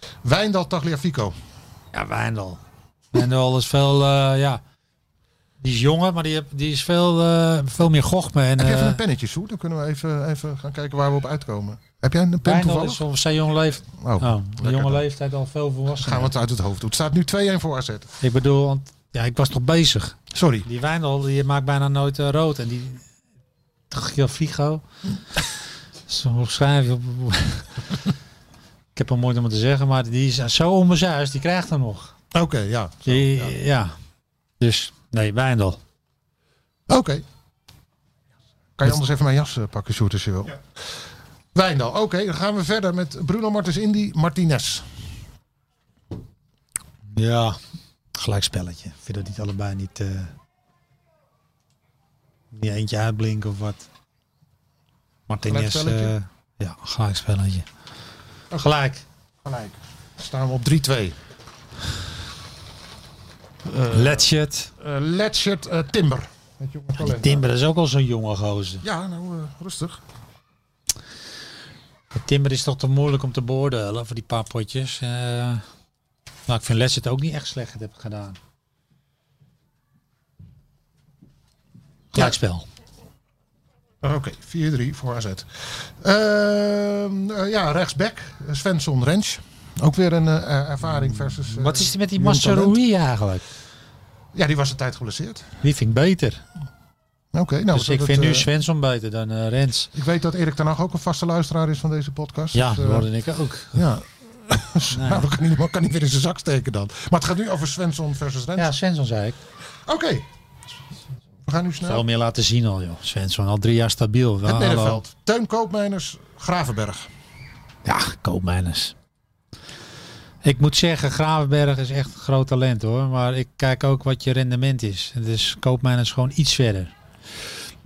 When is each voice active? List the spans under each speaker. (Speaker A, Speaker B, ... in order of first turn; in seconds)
Speaker A: 0.2-1.3, 8.6-13.0, 14.0-15.0, 16.0-18.1, 20.3-20.6, 32.3-33.5, 36.9-37.2, 38.8-40.6, 41.5-44.9, 55.5-56.1, 59.4-61.1, 63.6-64.3, 64.8-67.4, 68.8-70.0, 84.0-92.8, 94.3-95.5, 97.3-98.5, 99.9-103.1, 103.7-108.7, 109.8-110.2, 111.4-112.0, 114.4-117.1
Speaker B: 1.9-2.6, 3.1-4.6, 5.6-9.0, 12.4-16.3, 18.2-23.0, 23.9-24.8, 26.1-27.7, 28.9-32.1, 33.0-33.9, 34.6-35.8, 47.1-47.6, 48.1-50.3, 52.5-53.9, 55.3-57.6, 58.5-59.0, 63.9-64.7, 67.0-68.8, 72.1-75.6, 76.5-78.4, 82.1-82.7, 91.2-93.4, 95.6-96.4, 97.7-99.9, 102.5-103.8, 104.9-105.3, 108.6-109.4, 111.8-115.0, 117.8-118.9, 120.4-126.9